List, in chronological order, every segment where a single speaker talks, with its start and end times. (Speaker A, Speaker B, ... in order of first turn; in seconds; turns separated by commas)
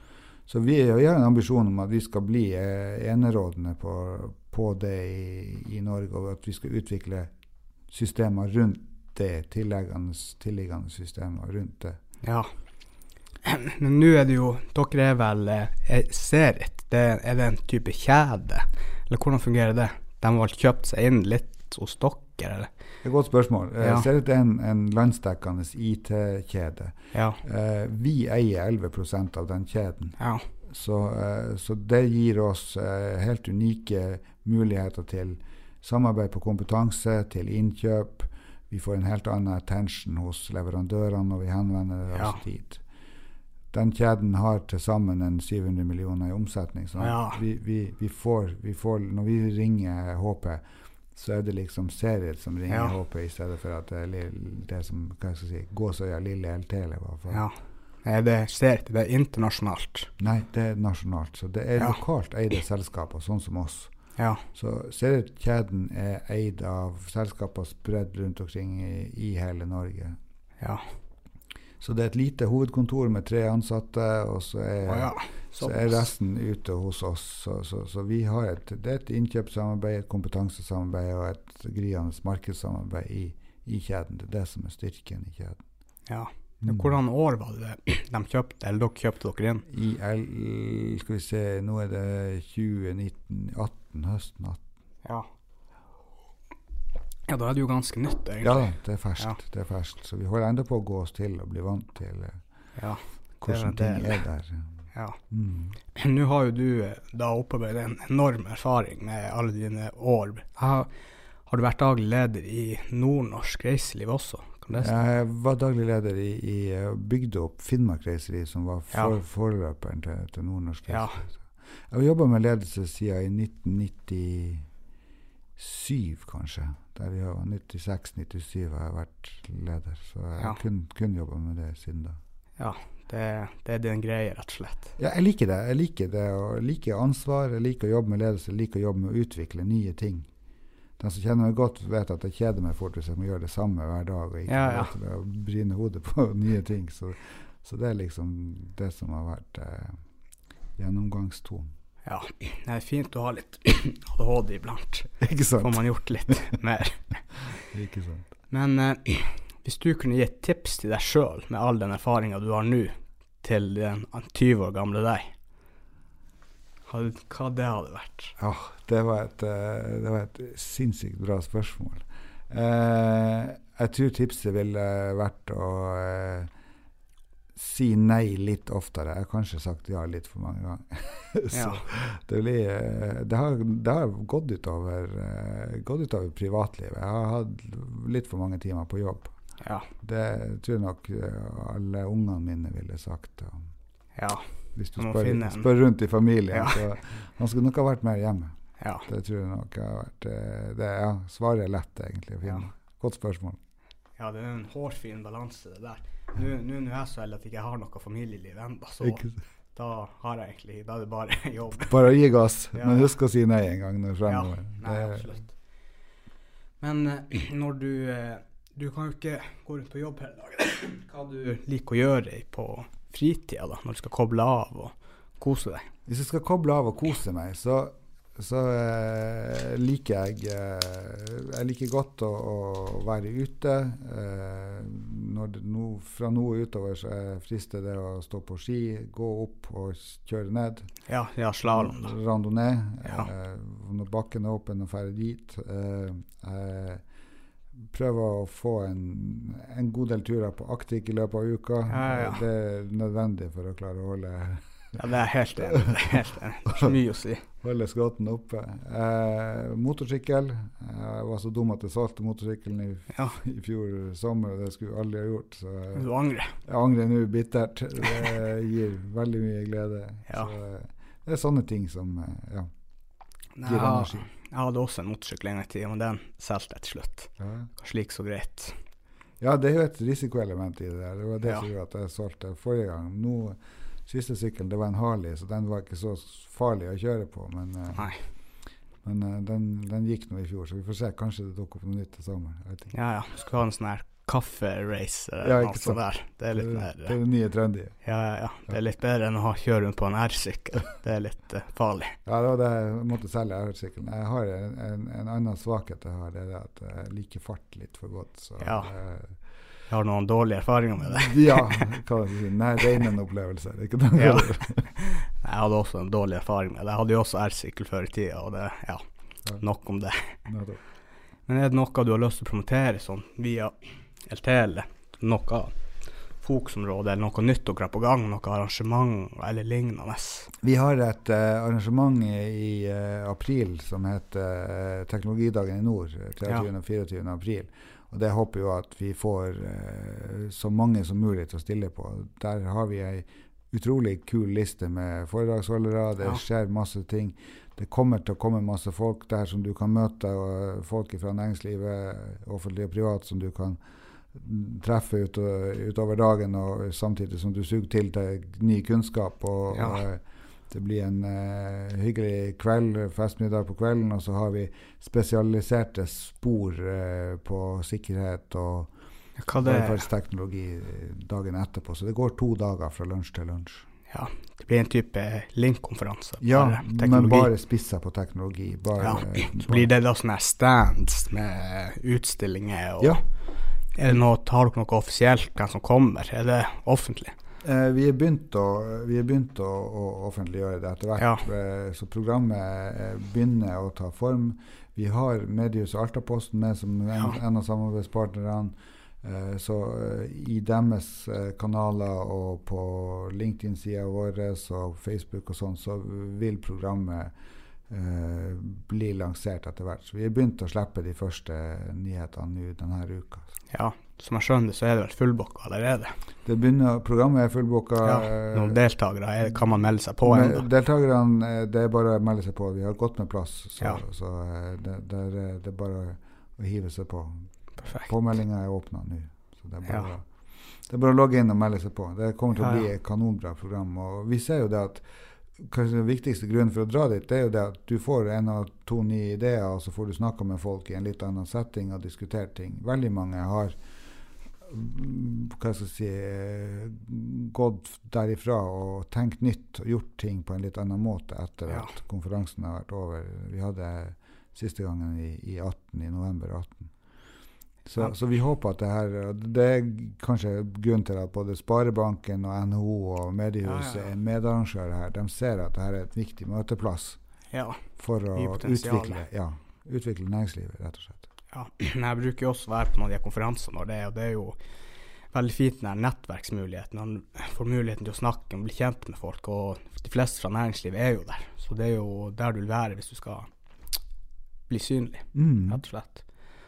Speaker A: 0.5-7.3, Speaker A: 7.9-12.0, Speaker B: 12.2-12.5, Speaker B: 13.4-22.7, Speaker A: 23.0-30.2, Speaker B: 23.8-24.1, Speaker B: 27.1-27.4, Speaker B: 30.2-30.4, Speaker A: 30.7-42.8, Speaker B: 42.1-42.4, Speaker A: 43.7-50.6, Speaker B: 47.0-47.4, Speaker A: 51.1-57.5, Speaker B: 52.7-53.0, Speaker B: 57.3-60.1, Speaker A: 60.2-63.9, Speaker B: 64.2-64.4, Speaker A: 64.5-70.2, Speaker B: 70.6-70.9, Speaker A: 71.8-85.6, Speaker B: 74.8-76.1, Speaker B: 86.1-89.6, Speaker A: 86.6-86.9, Speaker A: 89.7-94.6, Speaker B: 97.3-99.4, Speaker A: 98.4-102.4, Speaker B: 102.8-104.2, Speaker A: 103.4-104.6, Speaker B: 104.9-105.2, Speaker A: 105.3-105.8, Speaker B: 105.9-110.9, Speaker B: 111.5-114.9, Speaker A: 114.7-124.7, Speaker B: 120.9-121.2, Speaker A: 125.6-132.2, Speaker B: 132.6-134.9, Speaker A: 135.0-140.3, Speaker A: 141.0-150.0, Speaker B: 144.5-144.9, Speaker A: 150.8-151.7, Speaker B: 152.1-157.6, Speaker A: 155.2-156.3, Speaker A: 157.7-158.3, Speaker B: 158.5-165.3, Speaker B: 166.8-168.3, Speaker A: 168.4-176.5, Speaker A: 177.6-189.3, Speaker B: 181.5-181.9, Speaker B: 189.6-189.9, Speaker A: 190.0-193.6, Speaker B: 194.2-195.7, Speaker A: 194.8-198.5, Speaker B: 196.5-196.8, Speaker B: 198.8-199.1, Speaker A: 199.1-203.6, Speaker B: 204.2-211.9, Speaker A: 209.0-209.3, Speaker A: 211.8-215.3, Speaker B: 212.7-213.1, Speaker B: 214.2-215.5, Speaker B: 216.8-225.9, Speaker A: 226.1-240.9, Speaker B: 241.1-242.1, Speaker A: 241.6-247.0, Speaker A: 247.9-254.9, Speaker B: 251.9-252.4, Speaker B: 254.9-257.4, Speaker A: 256.7-256.9, Speaker A: 257.6-272.7, Speaker B: 263.1-263.4, Speaker B: 265.9-266.6, Speaker B: 273.6-278.8, Speaker A: 273.6-274.3, Speaker A: 277.4-277.7, Speaker A: 279.4-288.1, Speaker B: 287.9-288.2, Speaker A: 289.0-292.9, Speaker B: 292.9-297.2, Speaker A: 295.4-296.0, Speaker A: 296.5-297.9, Speaker B: 298.0-302.1, Speaker A: 302.2-309.4, Speaker B: 308.6-308.9, Speaker B: 309.9-311.9, Speaker A: 311.0-314.8, Speaker B: 314.1-319.0, Speaker B: 319.6-320.4, Speaker A: 320.4-320.8, Speaker B: 321.5-325.7, Speaker B: 326.4-330.5, Speaker A: 330.6-353.8, Speaker A: 354.3-368.9, Speaker B: 359.7-360.0, Speaker B: 369.4-370.0, Speaker A: 369.6-373.9, Speaker B: 374.1-377.5, Speaker A: 376.4-379.9, Speaker B: 379.0-383.2, Speaker B: 383.9-387.3, Speaker A: 387.6-407.3, Speaker B: 391.2-391.4, Speaker A: 407.9-413.5, Speaker B: 413.7-416.1, Speaker A: 416.4-418.8, Speaker B: 418.0-420.6, Speaker A: 420.2-427.4, Speaker B: 427.8-428.1, Speaker A: 427.9-430.3, Speaker A: 430.9-435.0, Speaker B: 432.6-432.8, Speaker A: 435.6-443.8, Speaker A: 444.6-456.9, Speaker A: 457.9-467.2, Speaker B: 463.6-464.1, Speaker B: 467.5-469.2, Speaker A: 468.0-471.3, Speaker B: 471.5-474.6, Speaker B: 475.3-483.5, Speaker B: 484.7-486.2, Speaker A: 485.3-485.8